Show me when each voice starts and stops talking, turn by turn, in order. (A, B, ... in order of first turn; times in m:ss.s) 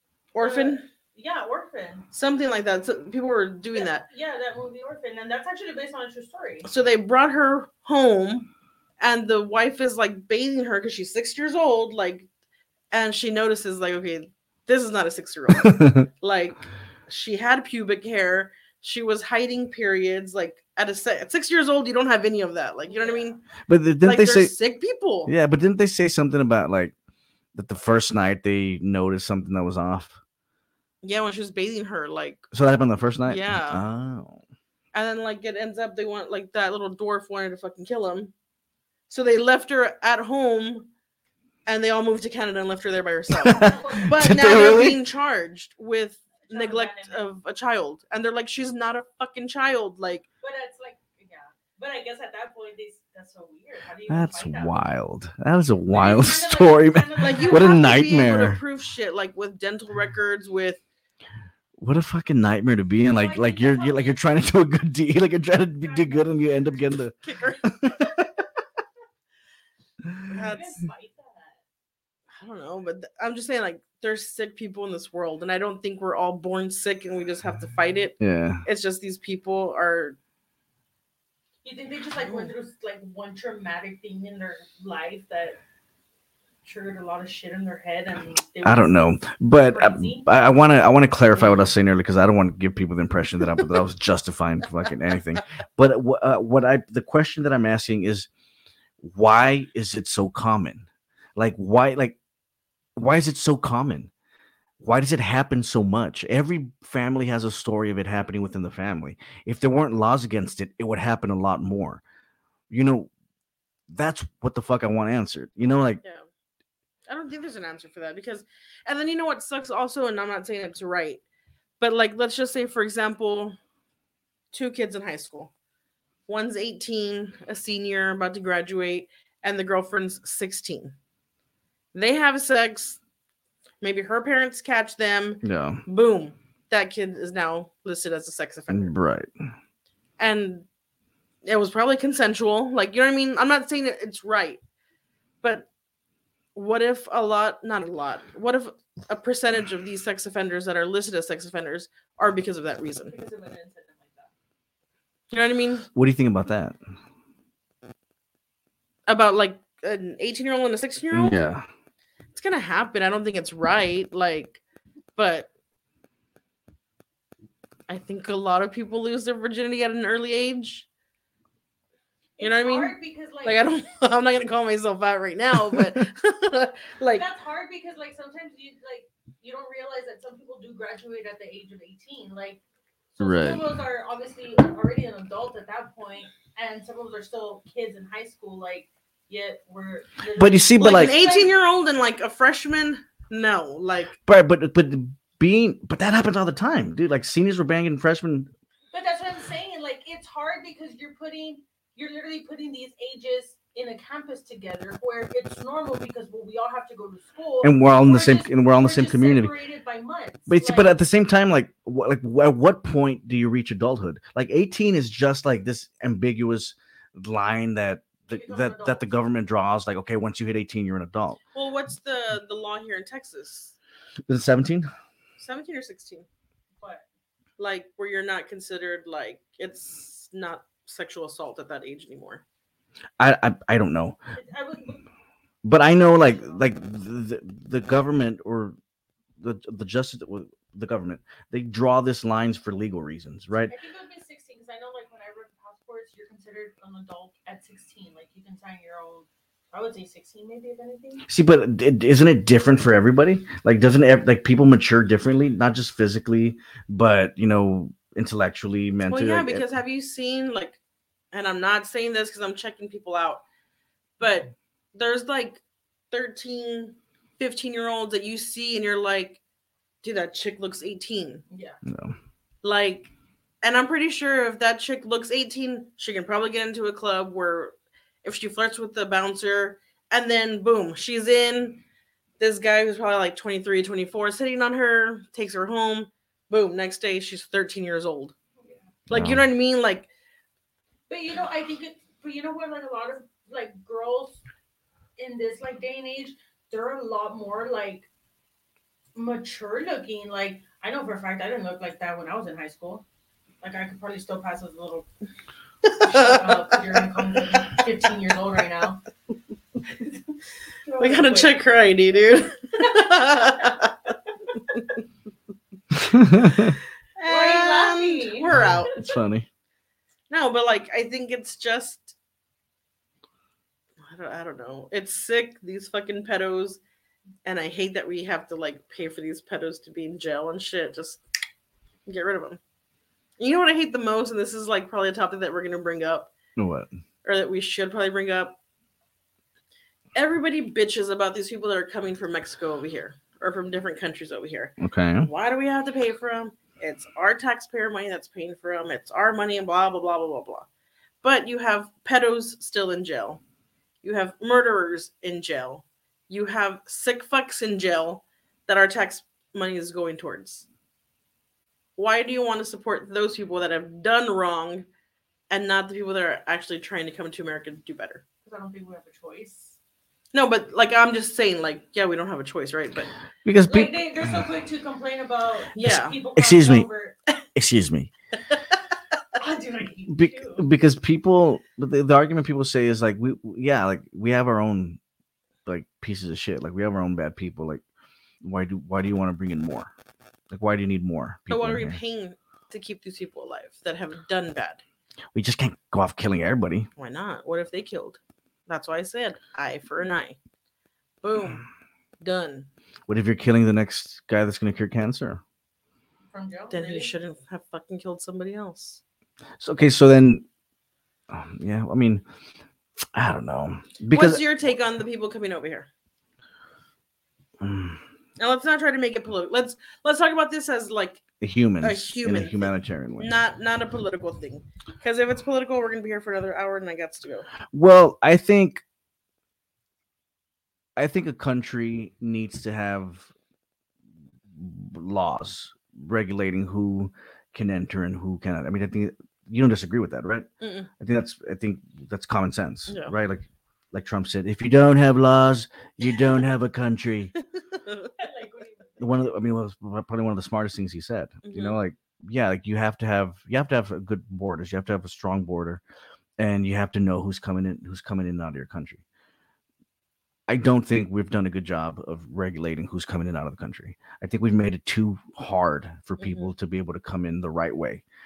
0:00.3-0:00.8 A
0:00.4-0:02.1 B
0:02.1-0:04.1 A
0:03.8-0:06.7 B
0:06.6-0:08.5 A
0:09.0-0:12.3 A
0:12.9-0:23.4 A
0:15.6-0:16.1 C
0:22.9-0:23.4 B
0:23.7-0:24.5 C
0:24.0-0:25.3 A
0:25.3-0:26.9 C
0:27.6-0:30.2 C
0:31.0-0:32.5 A
0:32.5-0:34.4 C
0:33.2-0:33.8 A
0:34.9-0:38.3 A
0:39.1-0:40.9 A
0:41.7-0:50.3 A
0:43.4-0:45.0 C
0:43.6-0:44.2 B
0:46.4-0:47.2 B
0:50.4-0:54.8 B
0:54.1-0:58.6 C
0:55.9-0:58.0 B
0:57.2-1:00.8 A
1:01.8-1:08.3 C
1:03.1-1:04.2 B
1:05.8-1:06.3 B
1:07.2-1:07.6 A
1:10.3-1:11.6 B
1:10.3-1:10.9 A
1:12.4-1:20.2 A
1:18.2-1:18.6 C
1:21.6-1:25.6 B
1:22.2-1:22.5 A
1:26.6-1:29.0 B
1:28.6-1:38.3 C
1:29.6-1:30.3 B
1:39.0-1:42.2 C
1:43.0-1:44.1 C
1:44.8-1:52.0 C
1:52.7-1:53.1 C
1:53.9-1:56.0 C
1:57.1-2:01.2 A
2:01.8-2:03.6 A
2:04.5-2:05.5 A
2:06.3-2:10.9 A
2:11.9-2:13.0 A
2:13.8-2:18.9 A
2:15.4-2:15.8 C
2:18.7-2:19.3 C
2:20.2-2:20.7 A
2:21.4-2:24.6 A
2:26.6-2:33.1 A
2:33.1-2:34.3 B
2:35.3-2:35.9 A
2:35.9-2:36.8 C
2:39.1-2:41.4 A
2:41.1-2:41.7 C
2:42.4-2:44.6 A
2:45.2-2:45.5 A
2:47.9-2:50.9 A
2:52.4-2:53.6 B
2:52.4-2:57.2 A
2:57.1-3:02.6 B
3:03.1-3:11.5 B
3:03.2-3:03.7 C
3:10.4-3:11.1 C
3:10.8-3:14.2 A
3:14.3-3:18.5 C
3:18.9-3:30.9 B
3:27.6-3:29.5 C
3:30.5-3:41.4 C
3:38.3-3:39.1 B
3:41.5-3:43.8 A
3:44.3-3:44.9 C
3:45.4-3:46.3 A
3:46.8-3:47.1 B
3:47.6-3:52.4 A
3:53.2-3:54.2 C
3:54.3-3:55.1 B
3:55.6-3:58.8 C
3:56.2-3:56.6 B
3:59.4-4:03.7 C
4:03.7-4:11.3 B
4:11.3-4:19.6 C
4:19.1-4:20.8 A
4:21.3-4:23.4 A
4:24.2-4:29.4 A
4:30.0-4:31.4 A
4:31.5-4:31.8 B
4:31.8-4:32.2 C
4:32.6-4:33.1 A
4:33.6-4:41.8 A
4:42.4-4:48.4 A
4:49.1-4:49.4 C
4:49.1-4:50.1 A
4:51.1-4:54.4 B
4:55.2-4:58.1 B
4:59.2-5:03.0 B
5:03.6-5:05.1 B
5:05.8-5:06.8 A
5:06.0-5:09.0 B
5:10.9-5:11.6 B
5:11.0-5:14.0 A
5:15.9-5:16.8 C
5:17.2-5:19.0 A
5:17.2-5:18.5 B
5:19.0-5:19.5 C
5:20.3-5:22.2 A
5:24.0-5:26.8 A
5:27.4-5:31.2 A
5:32.1-5:32.6 A
5:33.4-5:36.3 A
5:36.6-5:36.9 C
5:37.2-5:38.6 A
5:40.2-5:50.7 A
5:44.8-5:45.3 C
5:51.2-5:53.4 A
5:54.0-6:00.7 A
6:02.0-6:04.9 A
6:05.5-6:08.2 A
6:08.5-6:09.8 B
6:10.3-6:13.1 A
6:13.4-6:14.4 C
6:13.7-6:17.2 B
6:15.7-6:16.2 A
6:16.3-6:16.9 C
6:17.6-6:18.1 C
6:19.4-6:20.7 B
6:20.1-6:25.0 C
6:25.7-6:27.8 C
6:28.4-6:29.9 C
6:30.5-6:32.0 C
6:31.5-6:34.8 A
6:35.3-6:36.9 C
6:37.0-6:40.4 A
6:41.2-6:41.6 A
6:42.2-6:42.7 A
6:43.1-6:45.4 C
6:46.3-6:47.1 B
6:46.7-6:49.0 A
6:49.6-6:50.4 C
6:51.3-6:52.2 C
6:53.1-6:54.4 C
6:54.1-6:55.9 A
6:57.6-6:58.0 C
6:58.4-7:01.2 A
7:01.4-7:03.4 C
7:01.8-7:07.5 A
7:07.7-7:08.8 C
7:11.0-7:13.3 C
7:14.5-7:20.5 C
7:20.6-7:20.9 A
7:21.0-7:27.3 C
7:22.9-7:23.1 A
7:27.8-7:28.1 A
7:28.2-7:29.3 B
7:29.0-7:35.8 C
7:31.4-7:31.8 A
7:36.4-7:39.0 C
7:40.5-7:48.0 C
7:46.2-7:46.5 A